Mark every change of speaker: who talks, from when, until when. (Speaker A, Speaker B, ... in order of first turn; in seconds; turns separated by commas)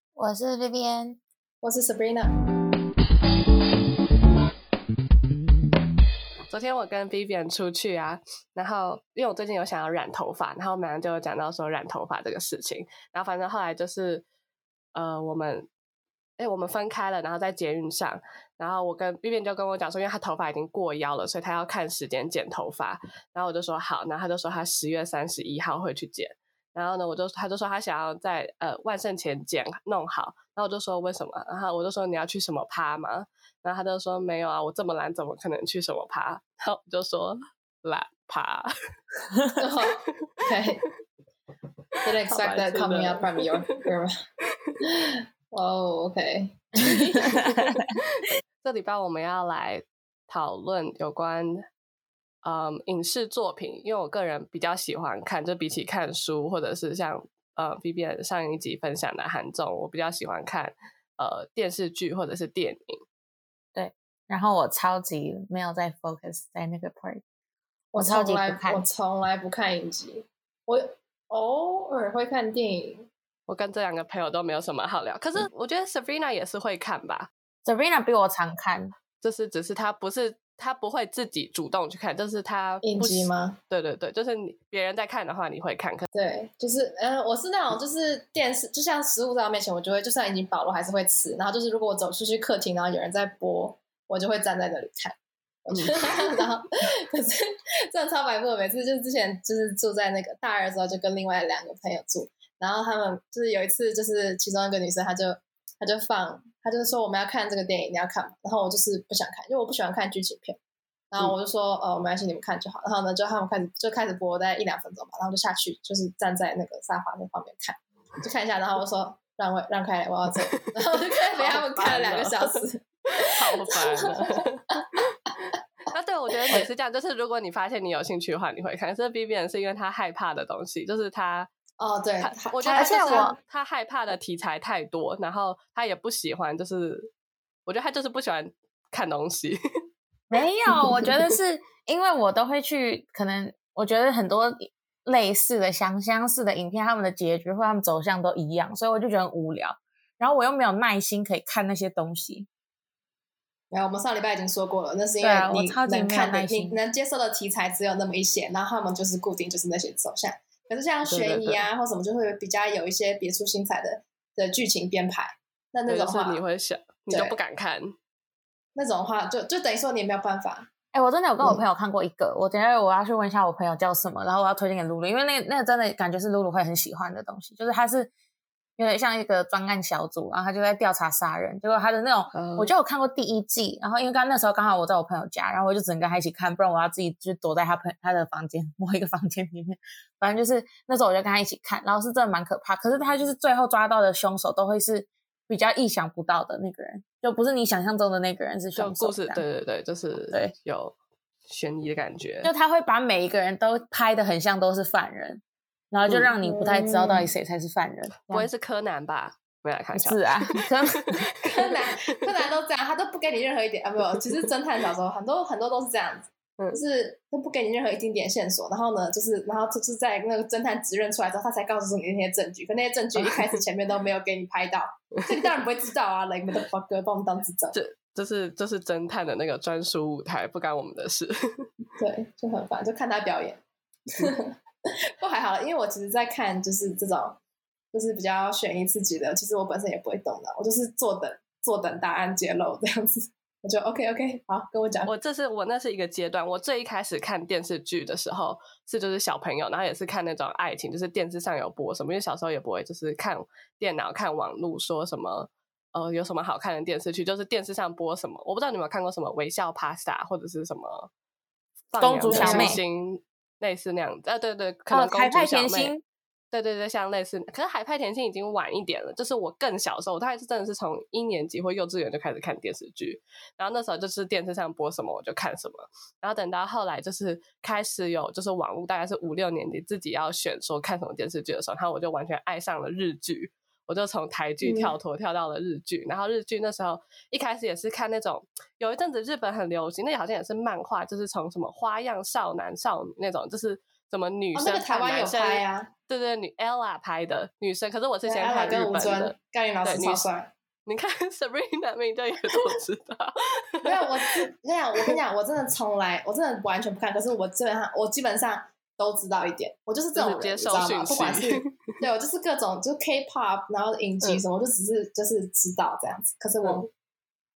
Speaker A: 0.1-1.2, Speaker B: 1.6-2.3, Speaker C: 6.5-14.2, Speaker C: 14.9-15.7, Speaker C: 16.4-38.7, Speaker A: 39.3-39.6, Speaker B: 39.6-40.8, Speaker B: 42.0-44.1, Speaker C: 42.3-43.8, Speaker B: 44.8-47.5, Speaker A: 47.2-47.7, Speaker C: 47.3-51.6, Speaker C: 52.4-63.0, Speaker A: 63.7-67.2, Speaker B: 67.9-73.1, Speaker A: 68.0-68.8, Speaker C: 73.5-77.3, Speaker A: 77.6-78.9, Speaker C: 79.2-86.1, Speaker B: 82.8-83.6, Speaker B: 86.1-110.6, Speaker C: 95.7-96.4, Speaker B: 111.1-124.4, Speaker C: 120.6-122.6, Speaker C: 123.2-131.5, Speaker B: 131.8-133.4, Speaker C: 132.2-137.1, Speaker A: 132.7-133.3, Speaker C: 137.7-139.6, Speaker A: 140.3-152.5, Speaker B: 153.7-166.4, Speaker A: 155.2-156.8, Speaker C: 161.1-161.6, Speaker C: 165.9-167.9, Speaker B: 167.1-167.4, Speaker B: 168.8-170.7, Speaker A: 170.9-178.1, Speaker A: 178.8-199.4, Speaker C: 182.3-182.7, Speaker C: 198.8-200.9, Speaker A: 200.3-200.5, Speaker C: 201.5-202.5, Speaker A: 202.4-208.5, Speaker C: 206.1-206.3, Speaker B: 206.4-207.3, Speaker C: 208.3-211.9, Speaker A: 209.9-211.2, Speaker B: 211.4-227.8, Speaker C: 223.2-223.6, Speaker C: 225.2-225.5, Speaker C: 227.7-231.7, Speaker B: 232.0-233.6, Speaker B: 234.1-237.4, Speaker B: 237.9-245.1, Speaker C: 245.1-261.1, Speaker C: 261.9-265.9, Speaker A: 262.0-262.8, Speaker B: 262.3-262.8, Speaker A: 264.9-266.0, Speaker C: 266.5-300.2, Speaker B: 284.6-284.9, Speaker B: 294.5-295.9, Speaker B: 298.2-300.5, Speaker C: 300.9-304.4, Speaker B: 303.8-316.9, Speaker C: 310.1-311.8, Speaker C: 316.6-316.9